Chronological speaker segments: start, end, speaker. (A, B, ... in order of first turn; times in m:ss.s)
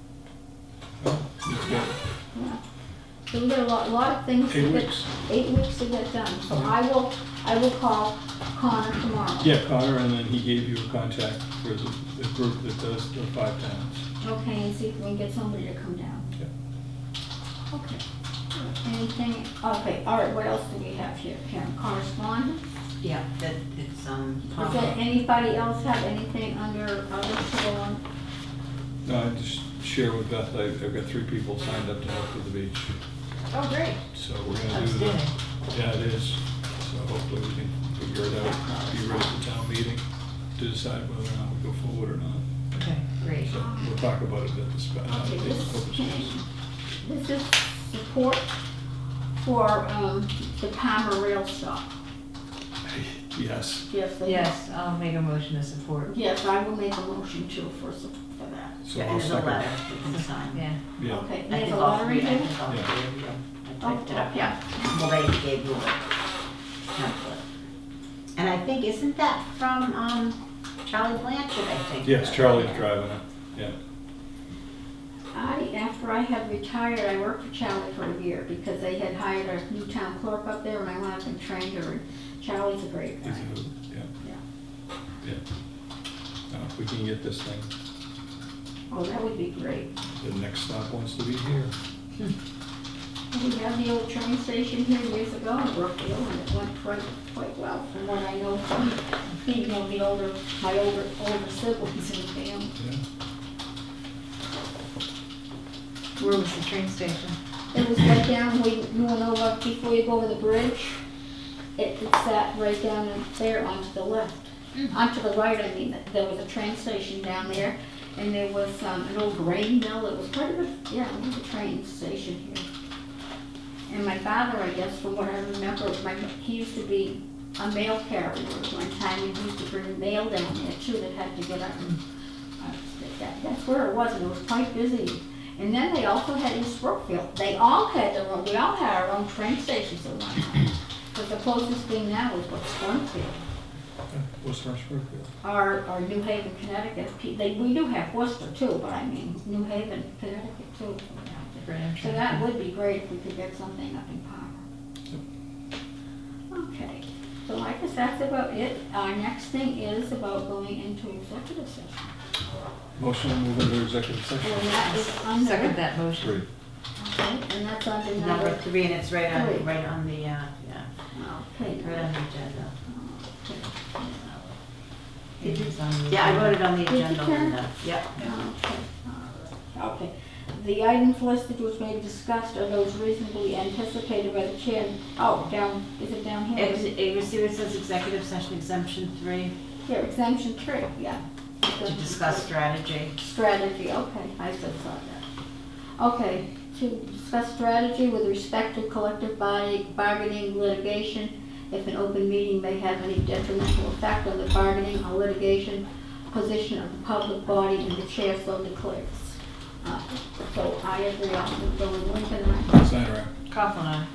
0:01.0-0:01.9 A
0:02.3-0:02.6 B
0:03.3-0:09.5 B
0:04.5-0:05.1 A
0:06.5-0:06.7 A
0:09.4-0:14.0 A
0:14.2-0:16.3 B
0:17.7-0:18.0 B
0:18.5-0:22.6 B
0:23.0-0:25.0 C
0:24.5-0:28.0 B
0:29.0-0:33.0 A
0:33.5-0:34.0 D
0:34.1-0:40.0 A
0:34.7-0:35.3 D
0:38.7-0:39.2 B
0:40.6-0:42.5 A
0:42.7-0:43.5 D
0:43.4-0:46.3 A
0:43.4-0:44.0 B
0:45.1-0:46.4 B
0:47.0-0:48.5 B
0:49.4-0:51.9 B
0:52.8-0:53.8 A
0:53.9-0:54.5 B
0:54.2-0:56.1 D
0:56.0-0:58.8 B
0:58.8-0:59.7 A
0:58.9-1:00.6 C
1:00.0-1:00.8 D
1:01.0-1:01.3 A
1:01.1-1:02.6 B
1:01.5-1:06.1 C
1:03.8-1:04.9 B
1:06.8-1:07.4 C
1:08.3-1:12.8 C
1:12.0-1:13.8 A
1:15.3-1:23.5 B
1:23.2-1:24.1 A
1:26.5-1:27.7 A
1:28.9-1:29.9 B
1:30.2-1:31.7 A
1:33.3-1:42.8 B
1:46.2-1:47.4 D
1:47.7-1:51.0 B
1:51.8-2:02.6 B
2:03.9-2:12.0 B
2:12.6-2:23.4 B
2:24.1-2:25.3 A
2:25.4-2:34.6 B
2:31.6-2:32.4 D
2:36.5-2:42.1 B
2:43.0-2:44.9 A
2:44.4-2:45.8 B
2:44.8-2:46.4 D
2:46.2-2:46.4 A
2:47.0-2:48.7 B
2:48.1-2:50.9 C
2:49.3-2:49.7 B
2:51.1-2:52.1 B
2:51.7-2:52.7 C
2:52.8-2:54.5 B
2:55.4-2:55.7 B
2:55.4-2:56.6 D
2:55.4-2:58.2 C
2:56.3-3:06.9 B
3:06.5-3:09.5 C
3:09.8-3:12.5 B
3:11.8-3:13.1 C
3:13.1-3:15.2 B
3:16.0-3:32.8 B
3:32.7-3:33.3 A
3:33.5-3:34.1 D